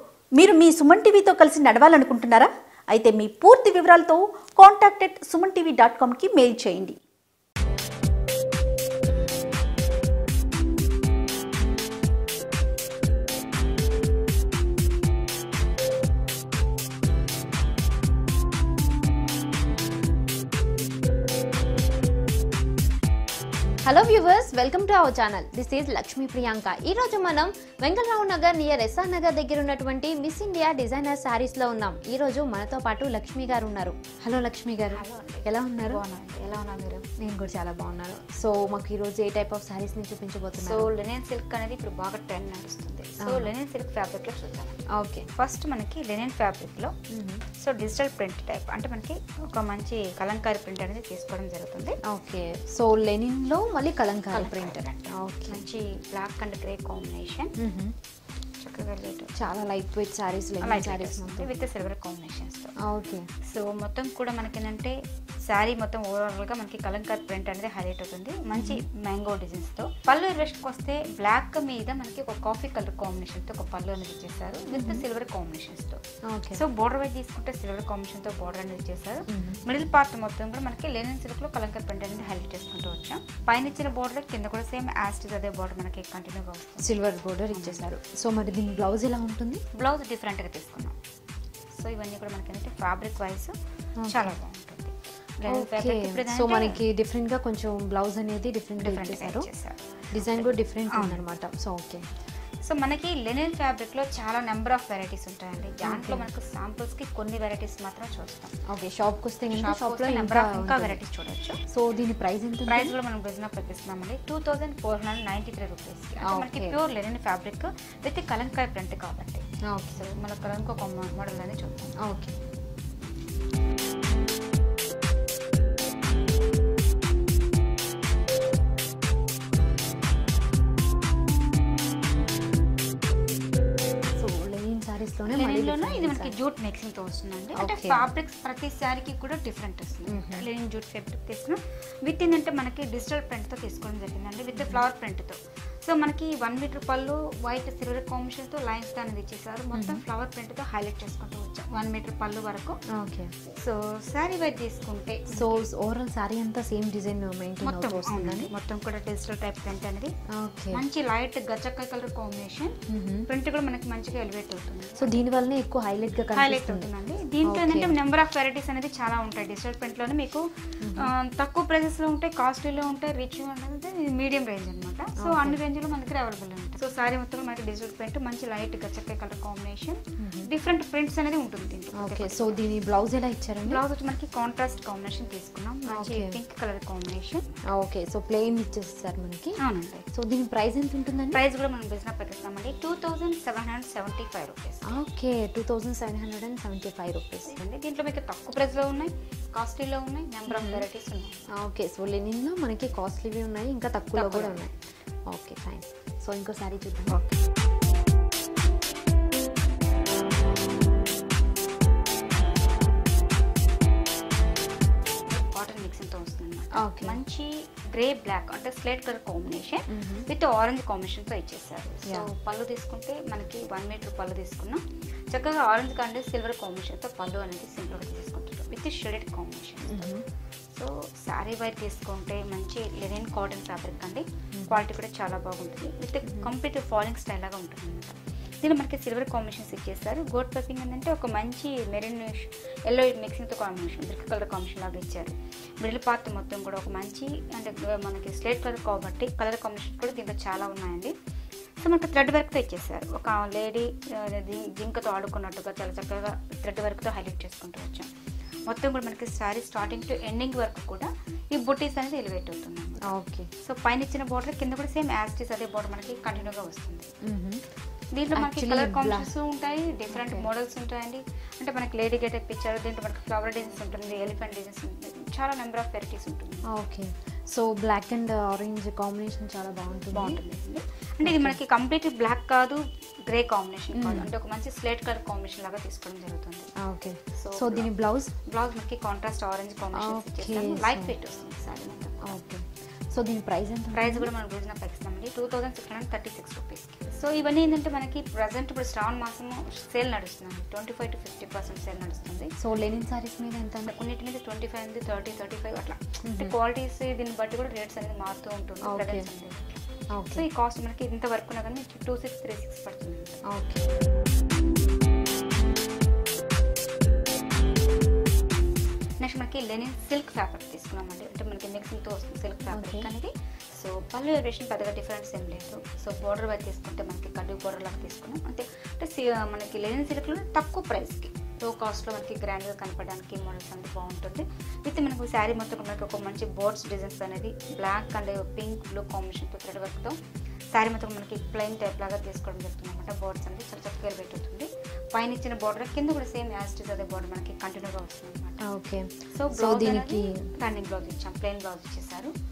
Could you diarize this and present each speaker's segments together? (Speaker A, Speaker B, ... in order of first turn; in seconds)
Speaker A: 0.3-7.0
Speaker B: 23.9-36.0, 37.1-40.9, 43.2-43.5, 45.0-45.3, 47.1-47.4, 52.1-55.6, 57.6-58.0, 59.4-61.5, 62.8-63.3, 68.5-68.8, 74.7-75.0, 76.3-76.6, 79.3-79.6, 86.8-89.6, 94.0-94.4, 95.5-99.5, 100.1-102.1, 105.8-106.3, 108.7-111.0, 111.7-113.0, 116.2-116.8, 119.7-120.0, 122.0-122.3, 134.2-136.3, 137.6-138.0, 140.1-140.5, 144.6-144.8, 149.7-150.0, 152.9-153.3, 155.3-158.5, 160.3-160.8, 162.9-163.3, 165.0-166.9, 167.4-168.0, 170.8-171.1, 175.2-175.6, 180.2-180.5, 181.9-183.8, 185.9-186.4, 187.7-189.6, 190.1-191.4, 194.9-197.6, 200.5-200.9, 201.5-204.8, 205.3-207.2, 216.8-217.2, 219.9-220.3, 229.9-230.2, 234.6-234.8, 236.2-236.5, 263.0-263.5, 267.2-267.6, 268.3-269.3, 270.1-270.5, 276.7-280.4, 281.2-281.6, 283.9-284.3, 286.8-288.3, 289.9-291.1, 292.2-294.3, 302.6-303.9, 306.2-306.6, 308.8-309.3, 310.1-310.5, 313.5-313.9, 322.7-323.1, 348.6-350.5
Speaker C: 34.9-37.1, 40.6-44.8, 45.4-46.9, 47.6-52.0, 54.3-57.5, 58.6-59.3, 60.6-62.7, 63.5-64.9, 65.5-86.9, 87.5-87.8, 89.7-91.0, 91.7-93.5, 94.1-96.8, 98.8-101.2, 102.6-108.5, 109.5-111.6, 112.7-119.4, 120.0-121.9, 135.3-152.8, 153.5-155.7, 157.6-160.1, 160.7-162.8, 163.3-165.2, 166.3-182.6, 183.6-187.6, 189.6-190.1, 191.3-194.9, 197.5-201.4, 204.1-204.6, 215.3-230.1, 230.7-251.1, 251.8-258.1, 258.7-267.1, 268.1-276.7, 280.1-286.7, 287.4-287.9, 288.4-292.4, 293.9-302.5, 303.9-313.4, 319.2-340.2, 340.7-348.6, 349.3-352.3